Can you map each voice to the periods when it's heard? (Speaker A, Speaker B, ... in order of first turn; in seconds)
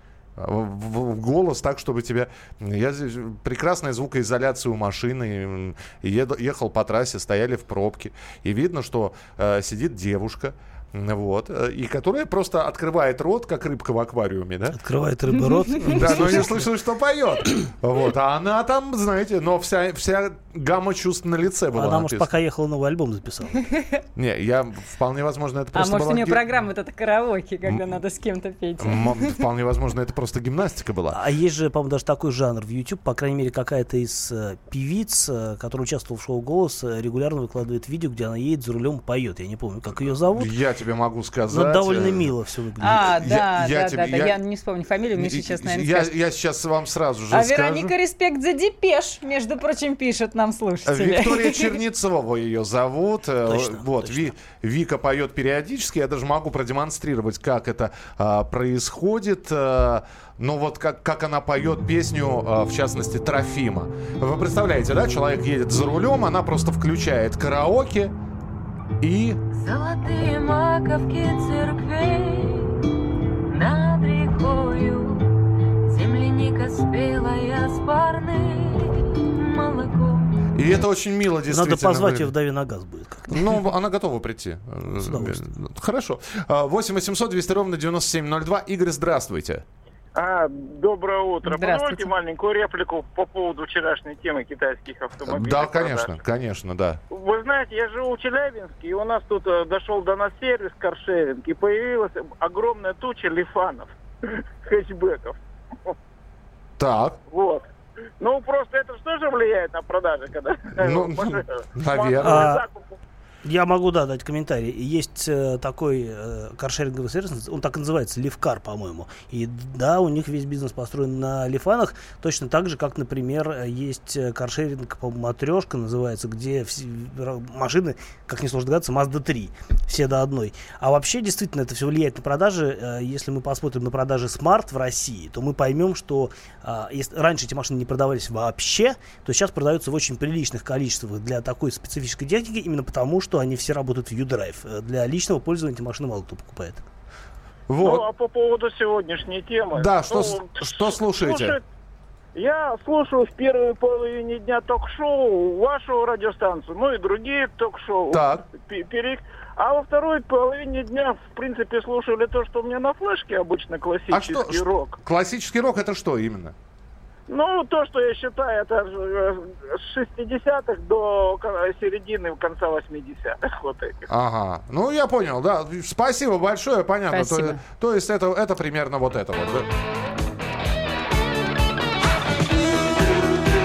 Speaker A: 0.4-14.8, 15.8-22.3, 24.1-26.4, 27.7-28.0, 28.8-31.2, 40.3-42.3, 43.0-44.4, 45.1-47.9, 50.9-68.1, 69.0-69.4, 80.5-82.3, 83.3-89.6, 95.2-97.0, 106.8-107.2, 110.8-112.6, 147.7-148.1, 149.8-151.6, 158.1-158.4, 164.1-166.6, 174.1-179.7
Speaker B: 14.7-16.7, 21.8-23.7, 31.1-40.5, 41.5-43.0, 53.5-54.3, 81.5-83.4, 84.9-85.5, 112.2-112.6, 113.5-146.8
Speaker C: 25.7-29.4, 42.8-46.1, 47.3-51.8, 91.5-92.1, 177.1-177.6
Speaker D: 69.5-72.8, 73.5-75.3, 75.9-80.3
Speaker E: 90.2-96.1, 97.1-106.0, 107.3-107.7, 108.2-112.9, 147.8-151.6, 152.3-165.0, 167.3-174.1